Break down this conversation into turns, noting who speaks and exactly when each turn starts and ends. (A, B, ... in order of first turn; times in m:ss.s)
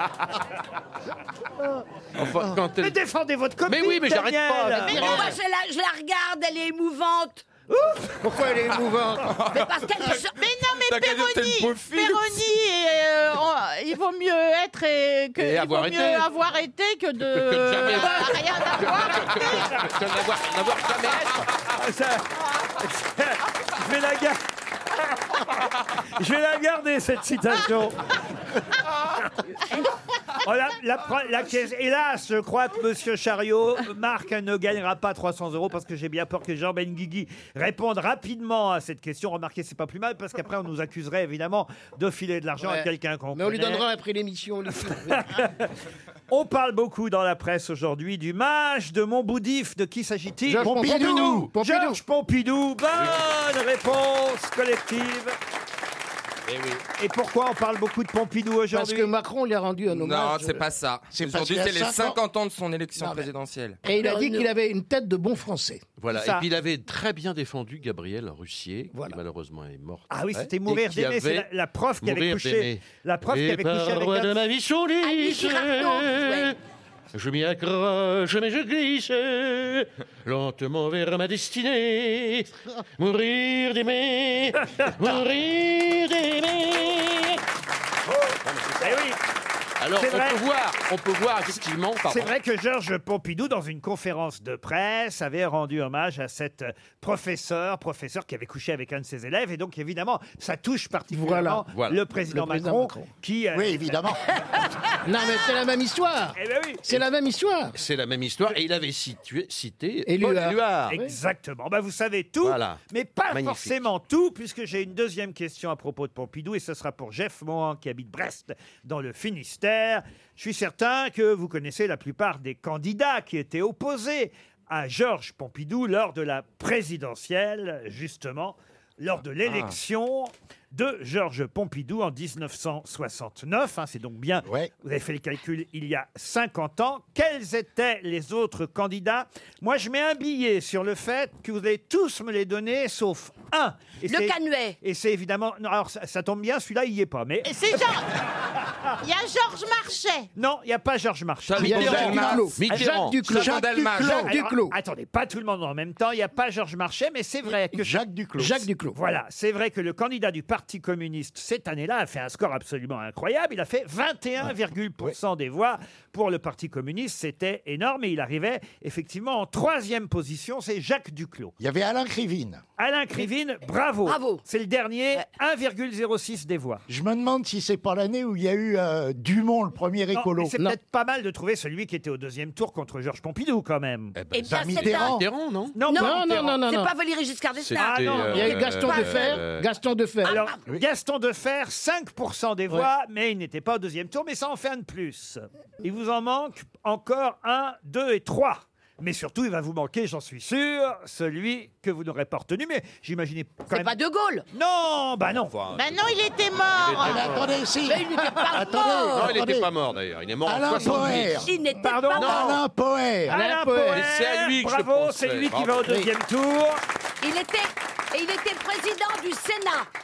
0:02.2-0:03.0 A
0:02.8-0:05.3 B
0:03.7-0:05.3 A
0:04.8-0:05.3 C
0:05.0-0:07.4 D
0:07.7-0:08.2 B
0:08.2-0:09.4 E
0:09.2-0:10.2 F
0:09.5-0:10.4 D
0:10.4-0:19.8 C
0:10.8-0:12.4 F
0:15.4-0:16.3 A
0:17.2-0:21.5 A
0:21.8-0:22.3 B
0:22.8-0:24.4 B
0:26.1-0:28.0 B
0:30.4-0:43.8 B
0:42.6-0:45.3 E
0:44.8-0:45.7 B
0:46.3-0:55.4 B
0:50.5-0:52.0 E
0:50.6-0:51.5 G
0:53.0-0:53.3 A
0:56.5-0:56.8 A
0:57.0-0:59.1 B
0:58.7-1:00.6 E
0:59.9-1:03.8 F
1:01.1-1:02.2 G
1:03.0-1:03.3 E
1:03.8-1:05.8 E
1:03.9-1:04.5 D
1:06.0-1:11.5 A
1:06.1-1:06.5 B
1:08.9-1:09.2 E
1:10.1-1:14.4 B
1:12.0-1:16.6 A
1:15.0-1:16.5 D
1:17.1-1:27.4 A
1:28.4-1:29.1 A
1:28.8-1:29.2 B
1:29.8-1:32.3 A
1:30.0-1:30.4 B
1:32.1-1:44.0 B
1:41.1-1:41.6 E
1:41.7-1:42.0 A
1:42.3-1:43.1 E
1:43.5-1:44.2 G
1:45.1-1:47.8 E
1:46.4-1:47.0 B
1:47.7-1:51.0 A
1:50.1-1:51.2 E
1:50.9-2:27.9 B
1:52.4-1:53.8 A
2:09.4-2:09.8 F
2:14.4-2:14.7 G
2:24.1-2:24.8 D
2:27.4-2:28.1 C
2:29.0-2:30.3 C
2:30.4-2:32.3 B
2:31.5-2:32.5 F
2:31.6-2:34.8 E
2:31.9-2:32.5 G
2:32.6-2:33.2 A
2:33.2-2:34.3 F
2:33.3-2:34.3 G
2:34.0-2:37.9 B
2:37.7-2:38.7 G
2:38.4-2:39.0 E
2:38.9-2:51.6 B
2:51.6-2:52.6 G
2:52.8-2:56.8 B
2:54.1-2:54.4 D
2:56.9-3:00.6 G
3:00.1-3:04.2 B
3:04.2-3:05.8 A
3:04.3-3:05.2 D
3:04.5-3:05.2 G
3:05.8-3:06.5 B
3:05.9-3:09.4 D
3:06.0-3:06.9 E
3:07.6-3:09.7 A
3:07.8-3:08.6 B
3:08.3-3:10.4 E
3:10.2-3:10.6 D
3:10.2-3:23.9 B
3:23.7-3:24.5 D
3:24.5-3:25.6 B
3:25.4-3:27.6 A
3:25.7-3:27.3 C
3:27.0-3:29.7 G
3:27.8-3:29.4 D
3:29.1-3:31.5 A
3:30.4-3:31.5 G
3:31.4-3:32.6 D
3:31.8-3:32.4 B
3:32.2-3:32.6 A
3:32.2-3:33.4 G
3:33.3-3:34.0 E
3:33.3-3:36.8 B
3:33.9-3:36.1 A
3:37.2-3:39.9 D